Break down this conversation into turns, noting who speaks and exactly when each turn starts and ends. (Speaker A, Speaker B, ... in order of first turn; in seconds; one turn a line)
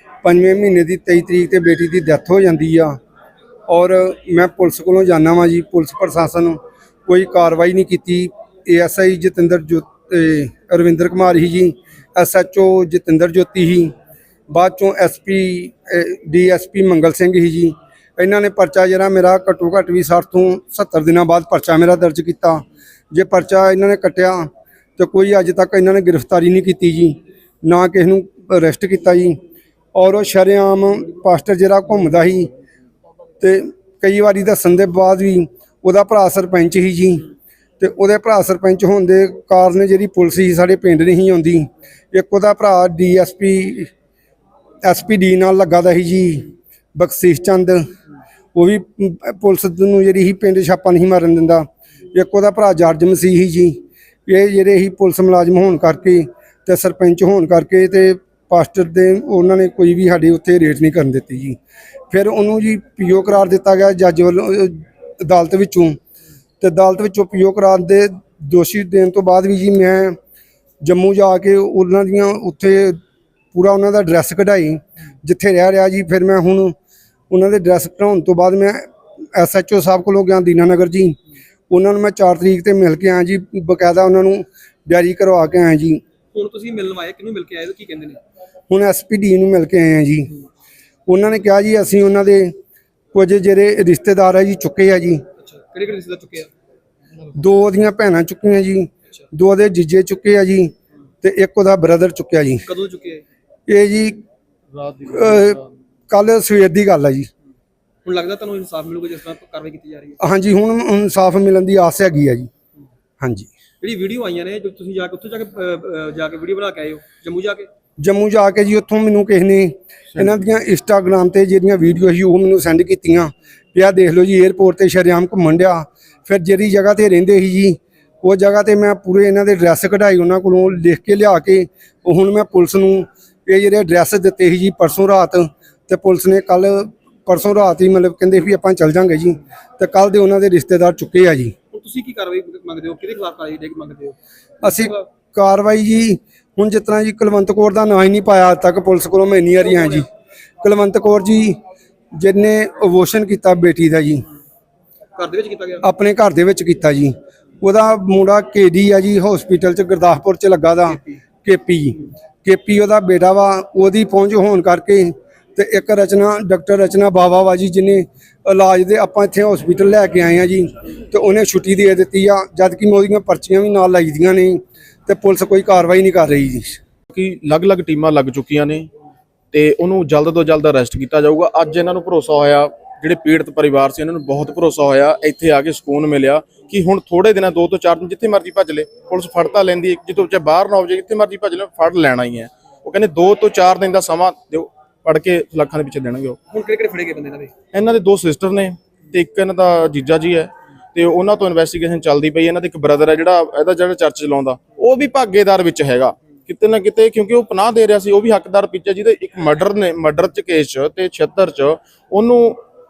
Speaker A: 0.2-3.0
Speaker A: 3.7-13.9
Speaker A: 14.5-29.4
Speaker A: 29.9-32.5
Speaker A: 33.4-37.3
Speaker A: 37.8-43.9
Speaker A: 44.8-47.8
Speaker A: 48.5-61.6
Speaker A: 62.1-66.0
Speaker A: 66.6-70.2
Speaker A: 70.8-73.0
Speaker A: 73.5-76.7
Speaker A: 77.3-81.2
Speaker A: 81.7-86.0
Speaker B: 86.3-88.2
Speaker A: 88.7-90.3
Speaker A: 91.1-92.5
Speaker A: 93.1-95.2
Speaker B: 95.4-96.5
Speaker A: 97.4-102.6
Speaker B: 102.6-103.2
Speaker A: 103.7-104.2
Speaker A: 105.0-105.6
Speaker A: 106.1-107.3
Speaker B: 108.0-110.2
Speaker A: 110.2-112.5
Speaker A: 113.2-113.5
Speaker B: 113.8-117.7
Speaker A: 118.0-141.5
Speaker B: 141.7-144.2
Speaker A: 144.6-150.1
Speaker B: 149.6-150.0
Speaker A: 150.6-151.6
Speaker A: 152.1-154.2
Speaker B: 155.2-155.8
Speaker A: 155.8-176.8
Speaker B: 160.9-161.2
Speaker C: 177.1-178.9
Speaker C: 179.5-196.4
Speaker B: 196.5-197.5
Speaker C: 197.7-212.6